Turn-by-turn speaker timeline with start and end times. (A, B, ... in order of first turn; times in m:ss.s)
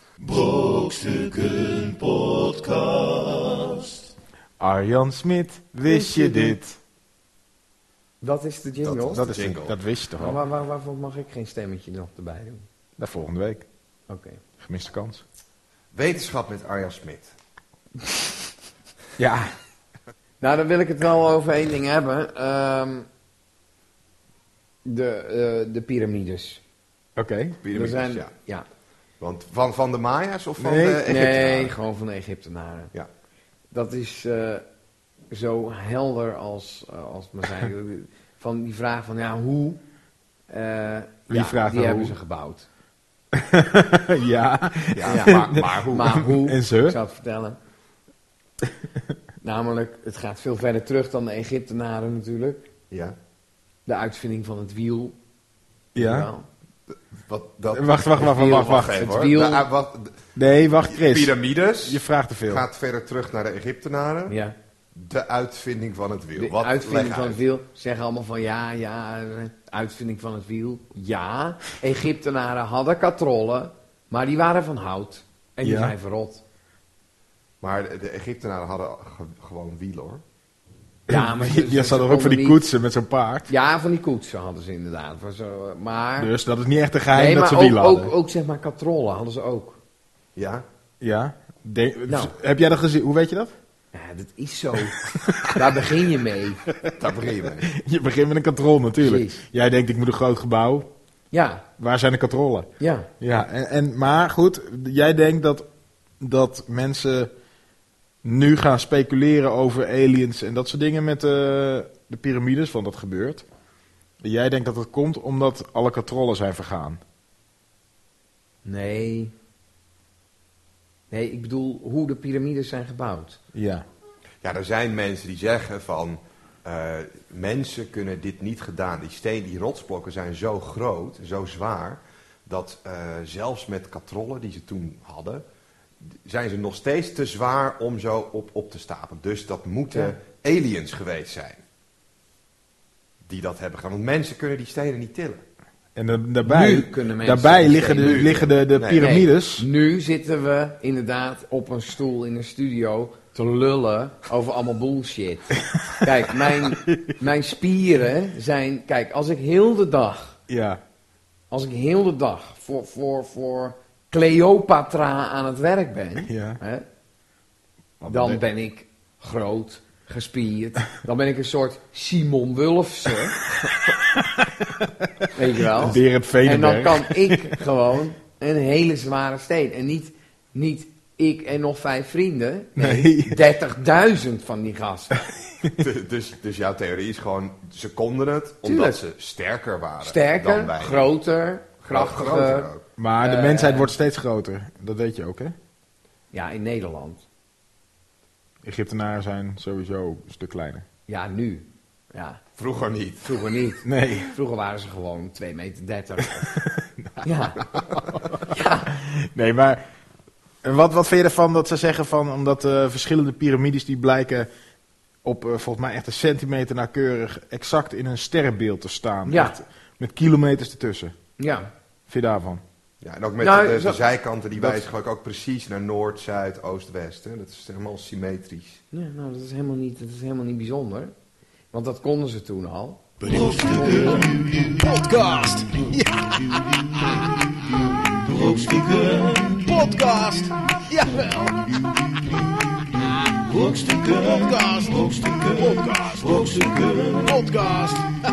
0:00.2-0:04.1 A
0:04.6-0:06.8 B
0:05.8-0:06.6 C
0:08.2-0:09.2 C
0:08.8-0:09.8 D
0:09.2-0:10.4 B
0:10.2-0:12.7 C
0:13.0-0:13.7 B
0:14.1-0:14.4 C
0:14.6-0:15.2 B
0:15.9-0:17.3 D
0:19.2-0:19.6 B
0:20.4-0:23.1 C
0:24.9-0:26.6 C
0:27.2-0:27.6 B
0:27.6-0:28.3 D
0:27.7-0:28.7 C
0:29.2-0:31.7 D
0:30.6-0:31.0 B
0:31.1-0:32.9 C
0:33.7-0:34.6 C
0:35.3-0:39.8 C
0:40.5-0:42.7 C
0:41.3-0:42.2 B
0:43.3-0:47.0 B
0:45.0-0:46.3 D
0:45.1-0:45.4 C
0:45.9-0:47.6 C
0:49.4-0:52.6 C
0:52.9-0:53.2 D
0:53.9-0:55.2 C
0:56.0-0:56.3 B
0:56.0-0:56.5 C
0:57.3-1:00.3 D
0:57.7-0:59.1 B
0:58.2-0:59.6 C
1:00.4-1:02.6 B
1:00.9-1:04.4 D
1:04.3-1:04.6 C
1:05.0-1:07.4 D
1:06.4-1:16.4 C
1:15.6-1:15.9 B
1:17.6-1:20.2 D
1:21.1-1:23.5 B
1:21.1-1:22.6 C
1:23.5-1:26.3 C
1:26.2-1:28.1 B
1:27.1-1:29.8 C
1:30.4-1:30.6 D
1:31.0-1:33.5 B
1:32.1-1:32.3 C
1:33.9-1:36.6 C
1:37.0-1:37.7 D
1:37.7-1:40.9 B
1:39.0-1:39.4 C
1:41.3-1:41.6 C
1:41.8-1:45.7 B
1:42.8-1:43.1 C
1:46.2-1:47.3 B
1:48.2-1:53.4 B
1:54.2-1:57.0 B
1:58.6-1:59.3 C
2:01.1-2:03.4 C
2:03.5-2:03.8 B
2:04.4-2:15.4 D
2:16.1-2:21.6 D
2:23.3-2:25.4 D
2:26.0-2:29.7 B
2:26.4-2:40.4 C
2:28.0-2:29.1 D
2:35.8-2:37.1 B
2:40.5-2:40.8 B
2:41.5-2:46.8 C
2:46.3-2:46.6 B
2:48.0-2:48.4 B
2:48.0-2:53.5 C
2:54.2-2:55.0 B
2:55.3-3:05.3 C
2:55.8-2:57.6 B
3:02.8-3:03.4 B
3:05.8-3:11.1 D
3:08.6-3:09.0 C
3:10.0-3:12.7 C
3:11.8-3:12.8 D
3:13.0-3:15.6 B
3:13.2-3:13.9 C
3:16.3-3:17.2 C
3:18.6-3:20.8 B
3:21.1-3:22.4 C
3:22.6-3:23.4 D
3:23.2-3:26.6 C
3:23.8-3:24.3 B
3:26.6-3:29.8 B
3:27.2-3:27.7 C
3:28.4-3:28.9 C
3:30.6-3:34.5 B
3:35.2-3:41.1 B
3:39.3-3:39.6 C
3:41.4-3:41.7 C
3:42.1-3:42.6 B
3:43.0-3:48.8 D
3:43.4-3:44.0 C
3:44.6-3:44.8 B
3:48.9-3:51.1 C
3:51.7-3:53.0 C
3:53.2-3:56.0 A
3:54.8-3:57.3 B
3:56.5-4:00.5 A
3:59.7-4:01.8 B
4:01.8-4:08.0 A
4:05.6-4:06.3 B
4:07.3-4:07.7 B